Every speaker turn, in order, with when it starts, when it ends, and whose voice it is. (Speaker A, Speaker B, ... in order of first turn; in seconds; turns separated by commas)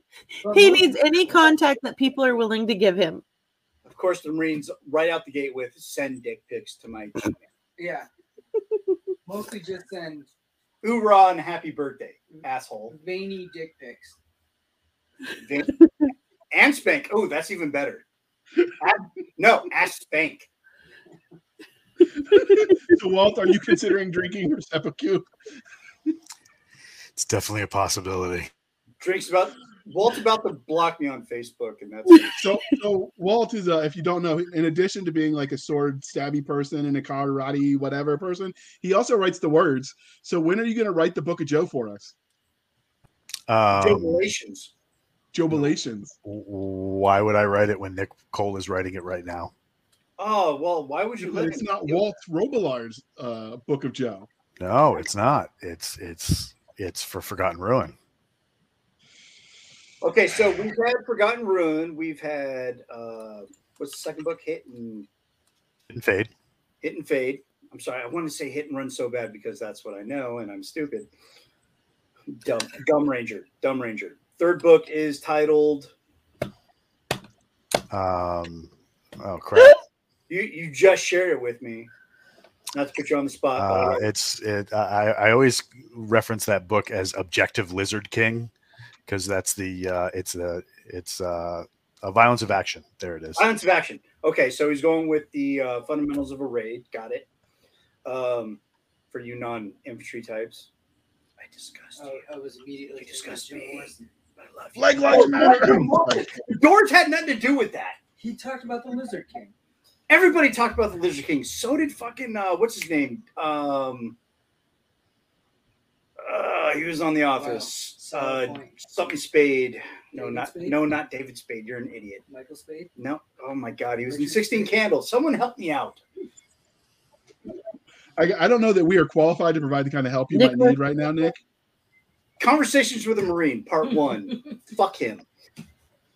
Speaker A: 0.4-0.9, Speaker B: 0.5-3.2, Speaker C: 3.9-7.4, Speaker A: 7.8-8.1, Speaker A: 9.3-10.3, Speaker C: 10.8-12.9, Speaker A: 12.9-14.2, Speaker C: 15.4-15.8, Speaker C: 16.5-18.1, Speaker C: 18.8-20.5, Speaker D: 22.4-25.3, Speaker E: 27.2-28.5, Speaker C: 29.0-32.4, Speaker D: 32.4-42.1, Speaker E: 43.5-44.2, Speaker C: 43.7-44.7, Speaker D: 45.3-46.2, Speaker E: 46.2-49.5, Speaker C: 50.2-52.0, Speaker D: 51.2-54.3, Speaker E: 54.6-58.0, Speaker C: 60.0-65.1, Speaker E: 65.9-66.3, Speaker C: 66.8-71.1, Speaker C: 72.3-75.9, Speaker E: 77.9-79.8, Speaker C: 80.3-81.9, Speaker C: 82.7-84.0, Speaker E: 83.6-88.5, Speaker E: 89.1-93.5, Speaker C: 93.4-97.3, Speaker C: 98.0-98.6, Speaker C: 99.1-100.7, Speaker C: 101.4-102.2, Speaker A: 102.0-104.1, Speaker C: 103.0-108.0, Speaker D: 104.8-106.5, Speaker A: 105.1-105.5, Speaker A: 108.2-109.5, Speaker C: 110.1-114.2, Speaker C: 116.2-122.2, Speaker A: 117.4-118.8, Speaker A: 120.2-120.8, Speaker A: 122.3-122.9, Speaker C: 123.0-126.0, Speaker A: 124.1-124.7, Speaker D: 128.2-131.4, Speaker B: 130.3-130.8, Speaker C: 132.4-135.2